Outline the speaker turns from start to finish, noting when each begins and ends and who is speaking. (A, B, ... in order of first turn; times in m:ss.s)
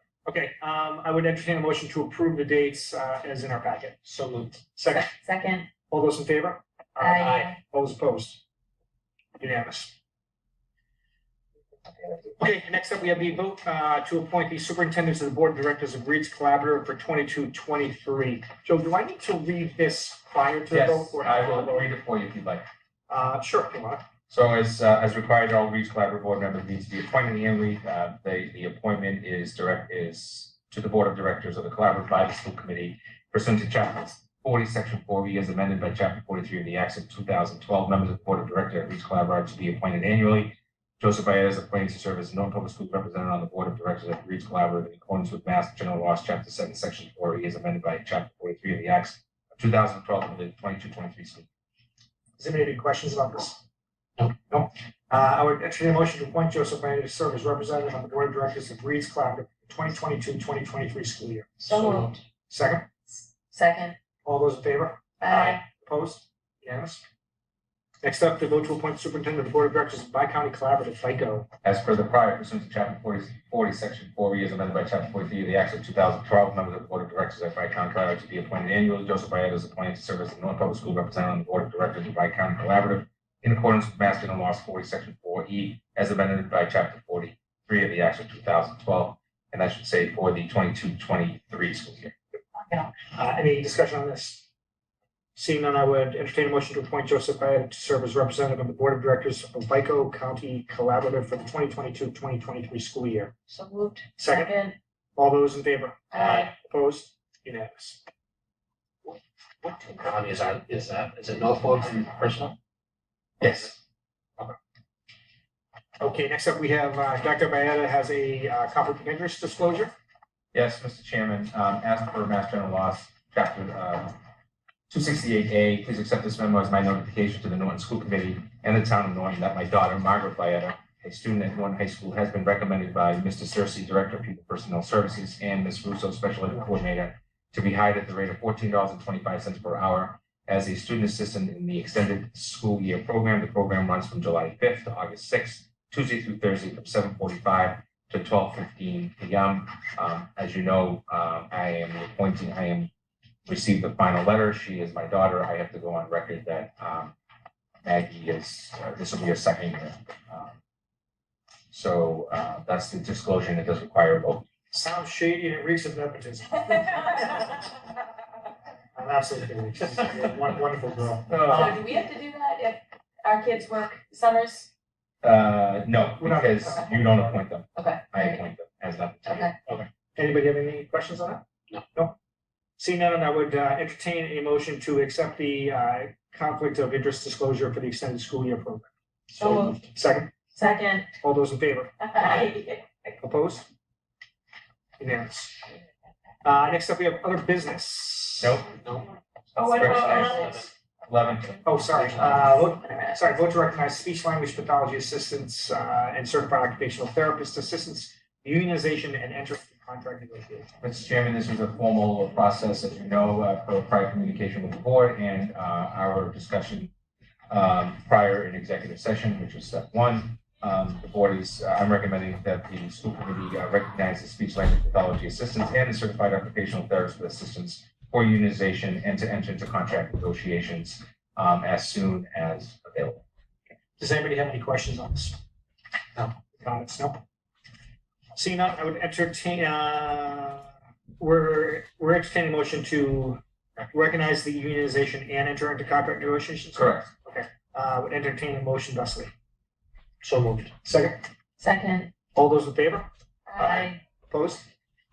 0:00.2-0:04.0 A
0:04.0-0:04.6 B
0:04.8-0:05.1 A
0:04.9-0:05.7 C
0:05.7-0:08.4 A
0:07.0-0:07.6 C
0:07.2-0:07.5 B
0:09.4-0:09.9 A
0:12.4-0:21.9 A
0:20.7-0:22.6 D
0:23.1-0:24.0 A
0:24.3-0:51.5 D
0:52.4-0:53.6 A
0:54.5-1:01.8 A
1:01.6-1:02.2 C
1:01.7-1:02.1 B
1:02.5-1:02.9 A
1:03.5-1:04.0 C
1:04.2-1:07.0 A
1:05.2-1:05.6 C
1:08.0-1:11.5 A
1:11.6-1:32.1 D
1:32.6-1:32.9 C
1:33.1-1:34.4 A
1:35.4-1:43.3 A
1:43.5-1:44.8 C
1:44.2-1:44.5 A
1:45.2-1:48.0 A
1:46.1-1:46.4 C
1:46.1-1:46.5 B
1:49.0-1:52.6 B
1:53.4-1:53.8 D
1:56.0-1:59.9 A
2:00.5-2:04.2 D
2:04.9-2:32.9 D
2:33.4-2:37.1 D
2:37.8-2:40.5 D
2:41.7-2:44.4 D
2:44.7-2:47.7 A
2:48.9-2:51.8 A
2:51.3-2:51.7 B
2:51.3-2:51.8 D
2:51.5-2:54.7 C
2:55.2-2:59.5 D
2:56.2-2:57.3 A
2:57.8-2:58.4 C
2:59.2-2:59.5 C
3:00.2-3:02.1 A
3:02.8-3:08.9 A
3:09.3-3:09.8 B
3:09.4-3:09.8 C
3:09.6-3:10.3 A
3:10.5-3:11.1 C
3:11.2-3:12.5 A
3:12.0-3:13.1 C
3:13.2-3:13.7 A
3:15.0-3:15.6 A
3:16.4-3:18.6 A
3:18.7-3:20.7 B
3:19.5-3:20.6 C
3:19.6-3:20.4 D
3:21.0-3:21.7 D
3:21.6-3:30.7 A
3:21.9-3:22.6 B
3:22.9-3:23.2 C
3:30.8-3:36.9 D
3:37.5-3:53.2 D
3:54.0-3:55.4 A
3:56.2-3:57.2 A
3:58.4-4:00.7 A
4:01.2-4:03.4 A
4:03.9-4:09.3 A
4:06.7-4:07.1 D
4:10.2-4:10.7 B
4:10.8-4:11.3 A
4:11.6-4:12.1 C
4:12.3-4:14.7 A
4:13.5-4:14.0 C